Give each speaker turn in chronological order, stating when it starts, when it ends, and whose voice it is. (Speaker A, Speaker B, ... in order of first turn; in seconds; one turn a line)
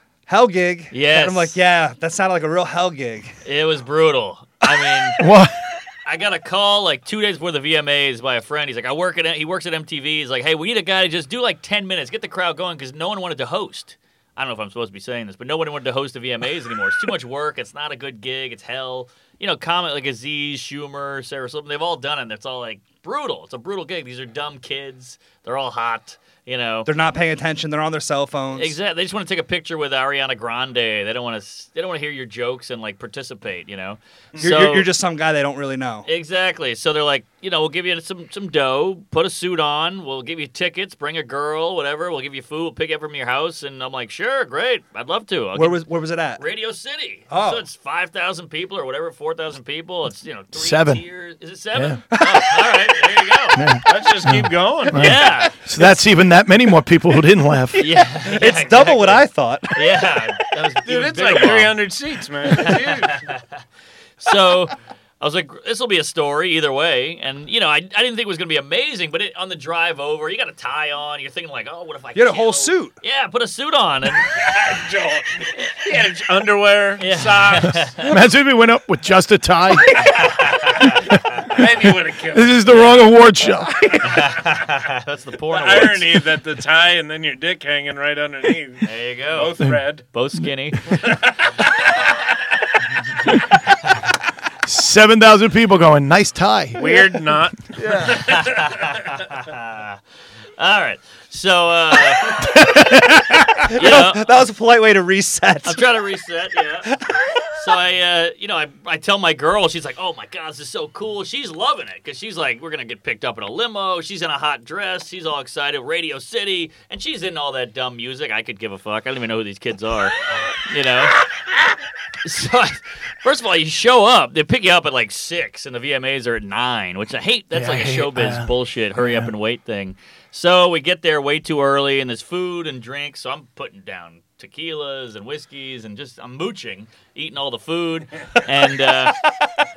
Speaker A: 0.3-3.4
Speaker B: 0.9-1.6
Speaker B: 3.5-5.2
Speaker C: 5.2-5.5
Speaker B: 6.0-26.9
Speaker A: 26.9-28.8
Speaker B: 28.5-34.9
Speaker A: 34.4-36.1
Speaker B: 36.1-45.8
Speaker A: 45.5-46.4
Speaker B: 46.4-53.7
Speaker A: 47.3-47.6
Speaker C: 50.5-51.0
Speaker C: 51.7-52.0
Speaker A: 52.1-52.7
Speaker C: 53.5-57.8
Speaker D: 53.9-55.2
Speaker B: 54.9-55.6
Speaker B: 57.8-61.8
Speaker A: 57.8-59.9
Speaker D: 60.9-63.3
Speaker B: 62.6-63.4
Speaker B: 64.2-74.3
Speaker A: 72.2-72.9
Speaker D: 74.2-77.9
Speaker B: 77.0-78.1
Speaker C: 78.0-80.1
Speaker B: 80.0-81.4
Speaker D: 81.5-83.0
Speaker C: 82.3-84.2
Speaker B: 82.7-83.0
Speaker B: 84.0-86.2
Speaker D: 85.5-90.1
Speaker B: 88.8-89.6
Speaker B: 90.1-91.0
Speaker D: 90.9-92.1
Speaker C: 94.6-96.9
Speaker D: 96.8-98.7
Speaker C: 97.8-98.2
Speaker B: 98.1-100.0
Speaker B: 100.6-102.5
Speaker C: 102.6-103.3
Speaker A: 103.6-105.9
Speaker B: 103.7-104.2
Speaker B: 105.7-106.9
Speaker A: 106.8-107.3
Speaker B: 107.5-121.2
Speaker B: 122.2-139.2
Speaker C: 127.5-129.3